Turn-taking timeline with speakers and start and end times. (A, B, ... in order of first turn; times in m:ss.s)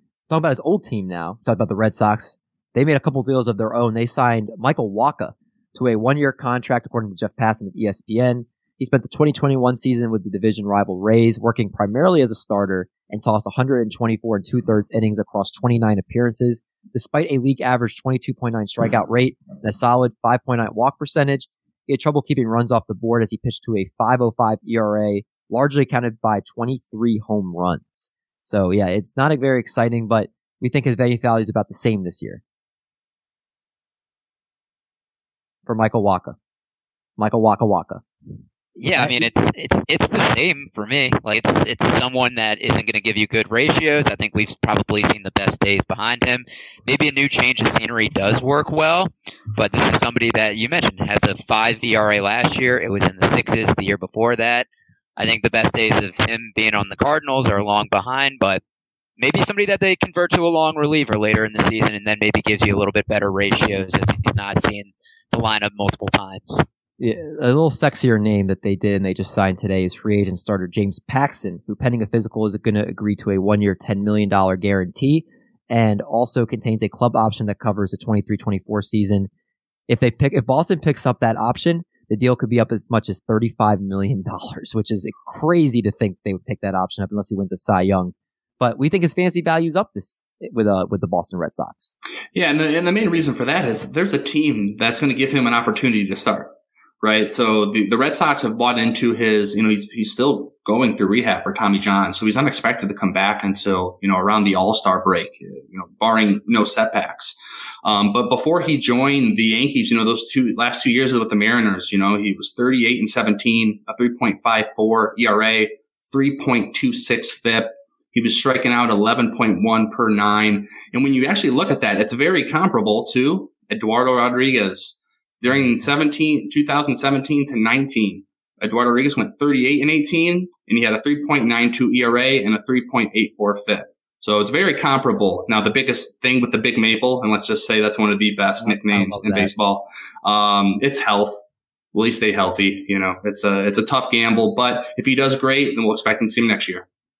0:00.3-0:32.4 A
0:35.6-0:36.4 A
0:37.2-0:38.0 A
0:38.8-0:58.6 B
0:38.9-0:39.3 A
0:59.2-1:06.6 B
1:07.0-1:19.3 A
1:19.9-1:31.9 A
1:32.3-2:21.4 C
2:18.6-2:19.5 A
2:21.9-2:26.8 C